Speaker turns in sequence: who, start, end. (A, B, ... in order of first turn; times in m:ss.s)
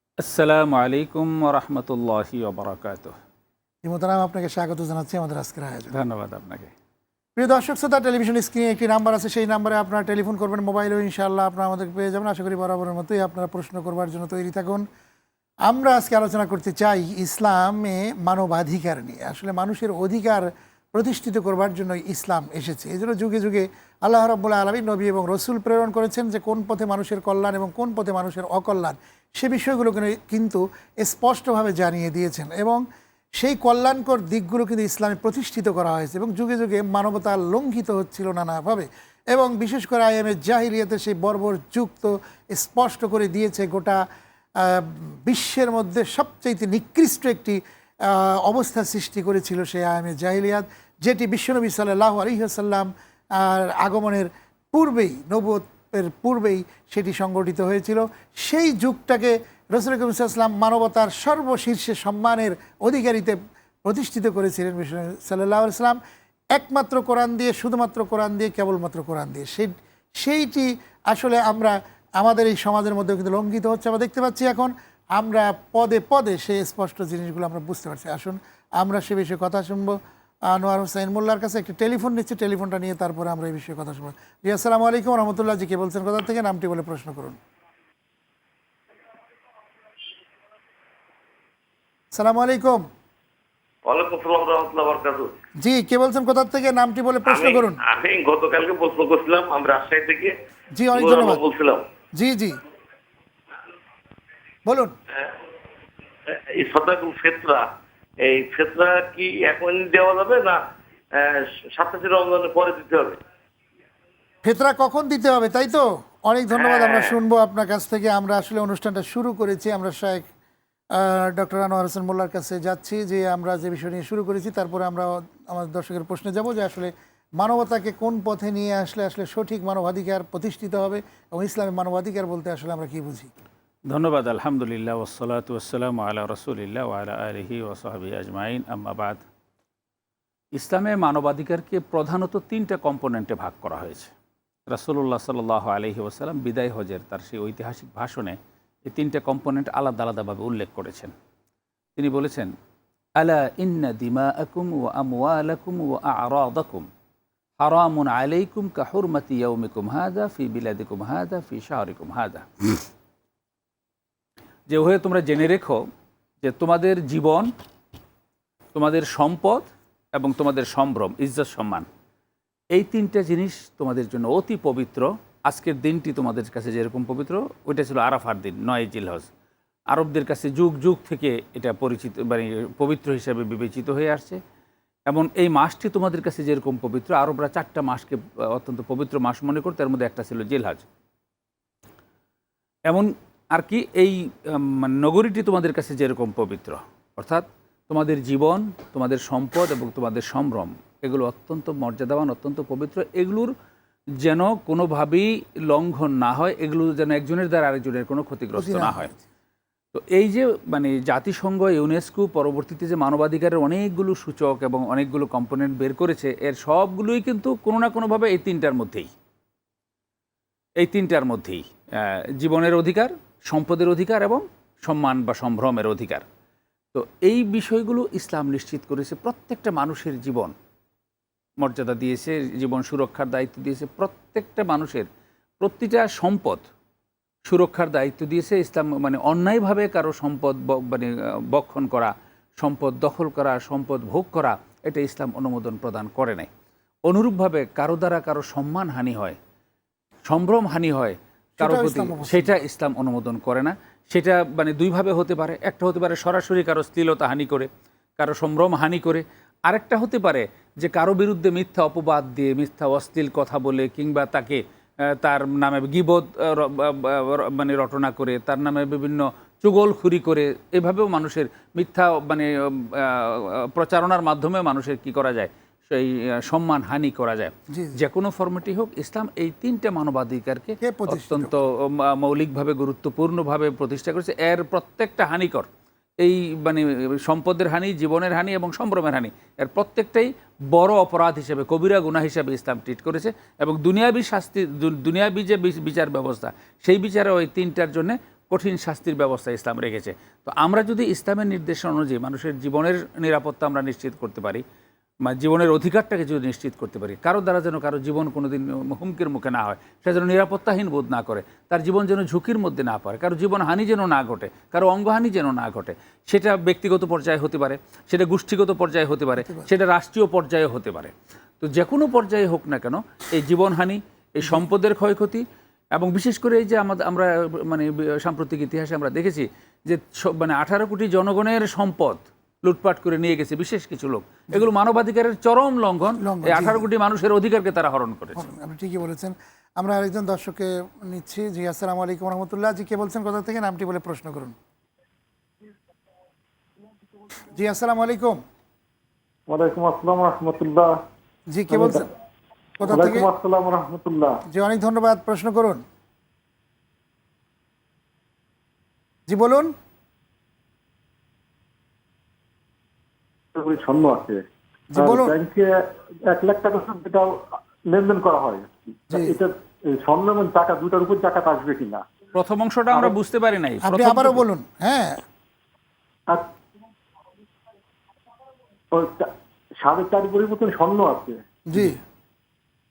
0:00.2-0:03.1 A
0:03.8-0:05.9 B
0:05.9-0:06.7 A
0:07.4-0:14.8 B
0:15.6-0:32.8 B
0:33.4-0:44.0 B
0:44.6-1:06.0 B
1:06.5-1:27.4 B
1:32.1-1:32.8 B
1:33.9-1:35.3 C
1:35.6-1:37.8 B
1:37.3-1:40.3 C
1:40.8-1:41.4 B
1:40.9-1:41.8 C
1:42.1-1:42.6 B
1:44.6-1:44.9 B
1:46.3-1:47.6 C
1:48.2-1:50.6 C
1:51.1-1:53.2 C
1:54.4-2:00.3 B
1:56.5-1:57.2 C
2:00.9-2:13.3 B
2:13.9-2:19.2 A
2:20.5-2:24.1 A
2:24.7-2:31.1 A
2:32.0-2:32.5 A
2:33.2-2:36.9 A
2:37.6-2:42.8 A
2:44.7-2:45.8 A
2:46.4-2:47.5 A
2:48.7-2:51.9 A
2:52.7-2:59.3 A
2:59.9-3:04.4 A
3:05.1-3:10.8 A
3:12.9-3:23.5 A
3:24.2-3:29.1 A
3:28.6-3:29.2 B
3:29.9-3:39.1 A
3:40.8-3:46.2 A
3:46.9-3:50.5 A
3:51.6-3:55.1 A
3:55.6-3:56.6 A
3:57.4-4:06.5 A
4:07.1-4:09.4 A
4:10.3-4:45.7 A
4:11.6-4:12.6 B
4:37.7-4:38.0 B
4:40.8-4:41.6 B
4:46.2-5:04.6 A
5:05.2-5:25.4 A
5:26.0-5:38.4 A
5:36.2-5:36.8 B
5:38.4-5:44.6 B
5:47.5-5:48.4 B
5:49.5-5:51.0 D
5:51.5-5:52.1 B
5:51.7-5:52.1 D
5:52.8-5:53.3 B
5:52.8-5:54.4 D
5:54.5-5:55.8 B
5:59.3-5:59.7 B
6:03.5-6:04.4 D
6:04.9-6:05.3 B
6:05.0-6:07.4 D
6:07.9-6:12.0 D
6:09.1-6:09.4 B
6:12.3-6:14.4 A
6:13.8-6:15.2 B
6:18.9-6:21.4 D
6:21.7-6:22.0 B